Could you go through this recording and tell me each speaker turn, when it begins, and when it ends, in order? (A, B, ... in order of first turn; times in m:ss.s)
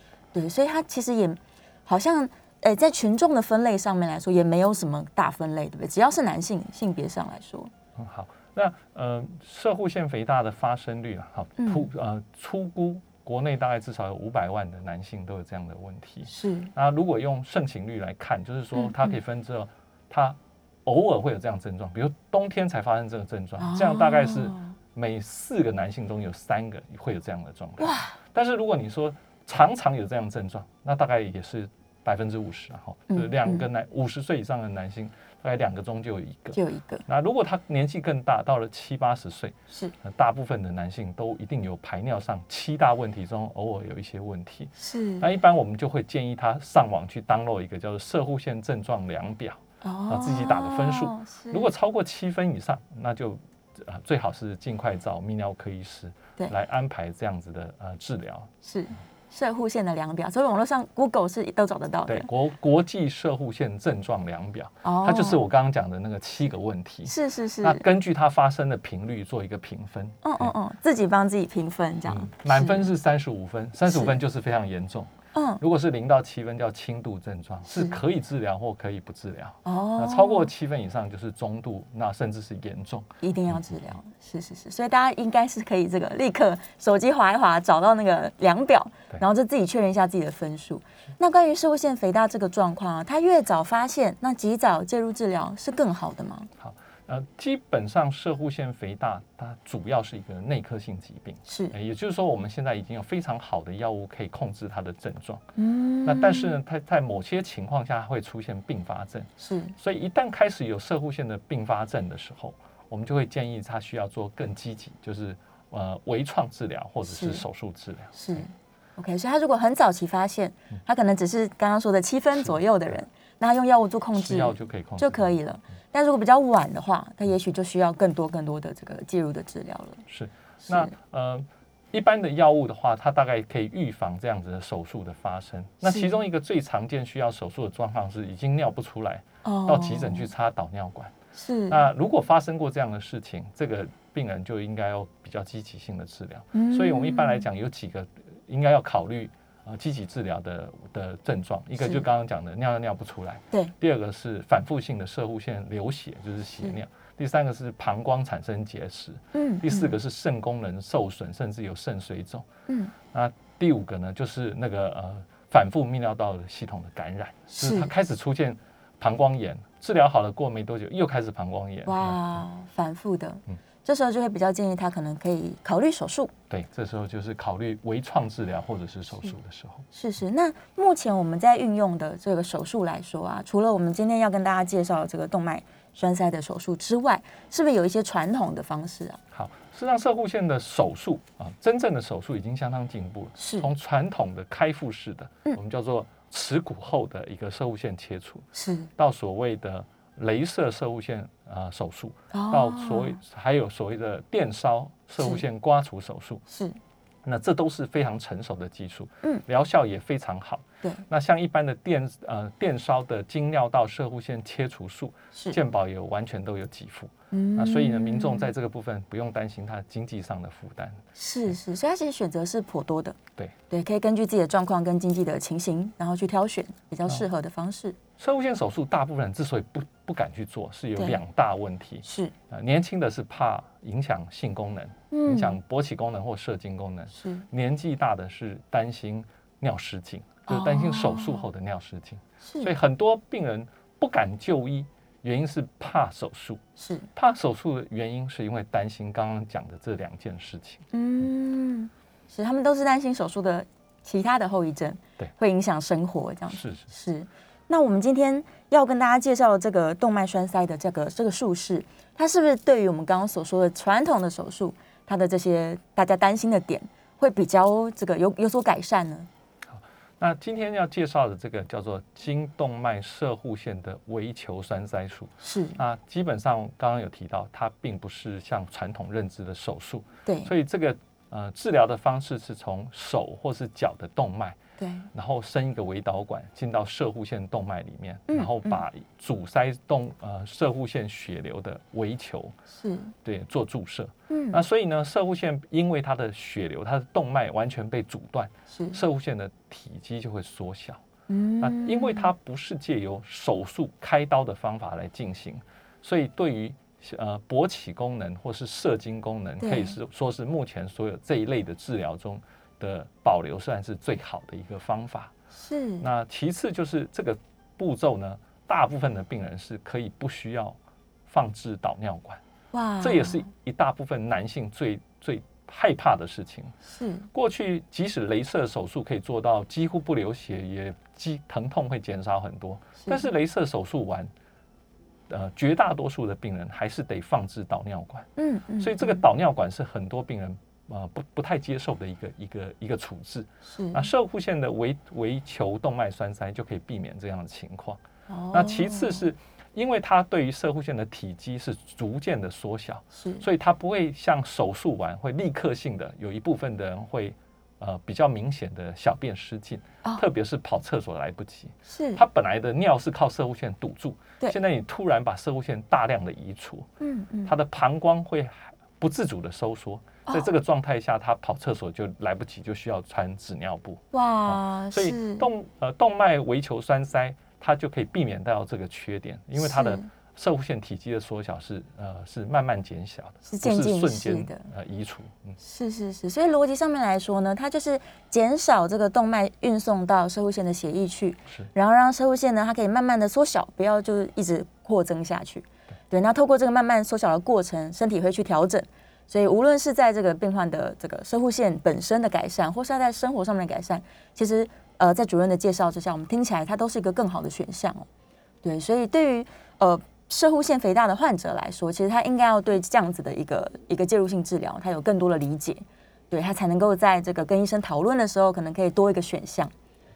0:00.3-0:07.7 A
0:08.0-0:58.5 B
0:11.6-0:11.9 A
0:16.3-0:16.7 A
0:18.8-0:19.1 A
0:23.6-0:24.8 A
0:27.8-0:28.2 A
0:33.1-0:33.6 A
0:36.5-0:37.0 A
0:44.8-0:45.2 A
0:49.8-0:51.7 A
0:58.6-1:02.3 A
1:02.1-1:10.5 B
1:04.8-1:05.4 A
1:07.0-1:07.8 A
1:10.2-1:12.9 A
1:12.1-1:23.6 B
1:13.9-1:14.1 A
1:15.3-1:15.6 A
1:17.7-1:18.0 A
1:19.6-1:20.5 A
1:23.2-1:36.5 A
1:36.6-1:45.4 B
1:41.5-1:41.7 A
1:45.6-1:46.6 A
1:46.0-1:58.4 B
1:49.4-1:49.7 A
1:57.1-1:57.4 A
1:58.2-2:10.0 A
2:04.1-2:05.3 B
2:10.1-2:21.1 B
2:10.6-2:10.9 A
2:15.8-2:16.1 A
2:19.4-2:20.3 A
2:21.3-2:21.8 A
2:21.7-2:42.5 B
2:26.5-2:27.4 A
2:31.8-2:32.0 A
2:39.3-2:39.9 A
2:42.7-2:42.9 A
2:43.1-2:52.2 B
2:47.6-2:47.9 A
2:51.8-2:56.3 A
2:56.5-2:59.8 B
2:59.9-3:09.2 A
3:09.3-3:26.4 B
3:13.4-3:13.7 A
3:18.5-3:18.9 A
3:22.3-3:23.2 A
3:26.5-3:26.8 A
3:27.2-3:41.0 B
3:37.3-3:38.5 A
3:41.2-3:43.2 A
3:43.7-3:48.0 A
3:48.2-4:06.6 B
3:52.0-3:52.3 A
3:55.1-3:55.6 A
3:57.1-3:57.4 A
4:00.5-4:01.4 A
4:02.4-4:02.7 A
4:06.8-4:07.1 A
4:07.1-4:10.8 B
4:10.9-4:29.3 A
4:16.5-4:16.9 B
4:29.7-4:44.6 B
4:35.4-4:35.8 A
4:40.2-4:40.5 A
4:44.8-4:45.1 A
4:45.1-4:52.5 B
4:48.3-4:48.8 A
4:52.8-4:53.1 A
4:53.2-5:01.0 B
4:54.3-4:54.6 A
4:58.7-4:59.0 A
5:01.3-5:02.3 A
5:01.6-5:15.3 B
5:09.6-5:10.0 A
5:15.6-5:16.0 A
5:16.0-5:22.4 B
5:22.7-5:23.5 A
5:23.0-5:26.7 B
5:26.9-5:27.3 A
5:27.3-5:34.3 B
5:35.3-5:48.0 B
5:38.4-5:39.2 A
5:43.6-5:44.0 A
5:48.3-5:49.2 A
5:48.5-6:06.9 B
5:53.2-5:53.4 A
6:01.9-6:02.2 A
6:07.0-6:07.5 A
6:07.4-6:25.6 B
6:14.1-6:15.5 A
6:19.6-6:20.0 A
6:23.4-6:24.7 A
6:25.6-6:48.1 A
6:48.6-6:59.7 A